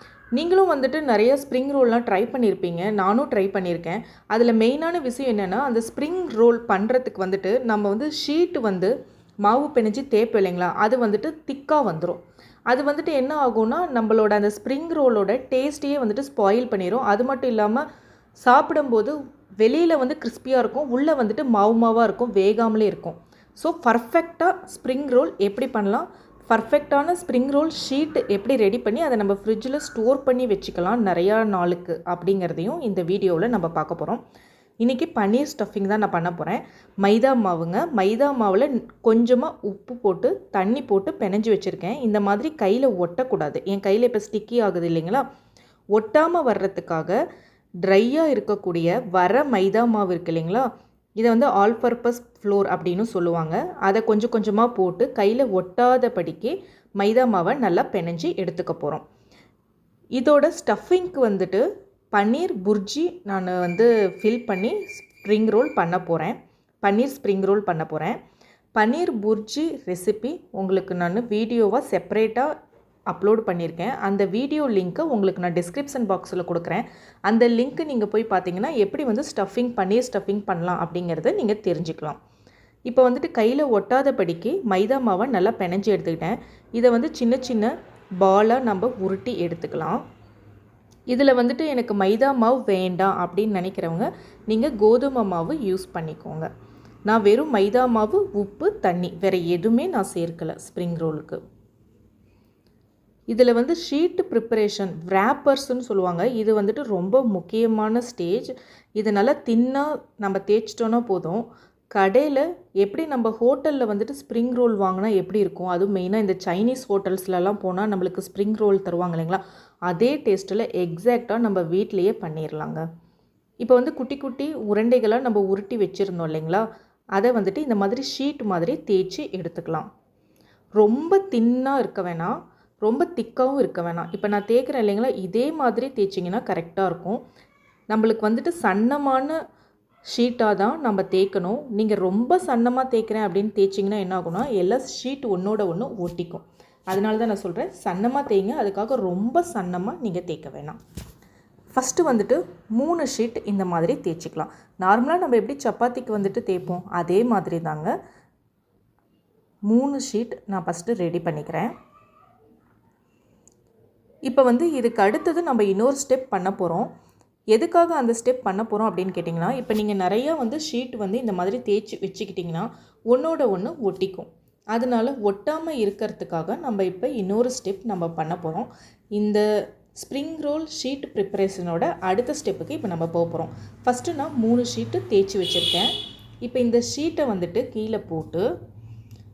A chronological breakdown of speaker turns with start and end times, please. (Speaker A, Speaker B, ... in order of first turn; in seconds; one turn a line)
Speaker A: 0.3-17.8
Speaker A: 18.4-34.2
Speaker A: 34.8-45.2
Speaker A: 46.0-47.2
Speaker A: 47.9-50.6
Speaker A: 51.2-59.0
Speaker A: 60.2-68.2
Speaker A: 68.8-72.5
Speaker A: 73.1-82.2
Speaker A: 82.9-87.7
Speaker A: 88.2-90.0
Speaker A: 91.1-96.5
Speaker A: 97.1-101.4
Speaker A: 103.3-122.8
Speaker A: 123.6-126.7
Speaker A: 127.2-129.9
Speaker A: 130.8-137.2
Speaker A: 137.9-139.3
Speaker A: 140.1-150.8
Speaker A: 151.7-157.9
Speaker A: 159.7-161.7
Speaker A: 164.3-166.9
Speaker A: 167.5-179.4
Speaker A: 180.0-185.9
Speaker A: 186.4-188.4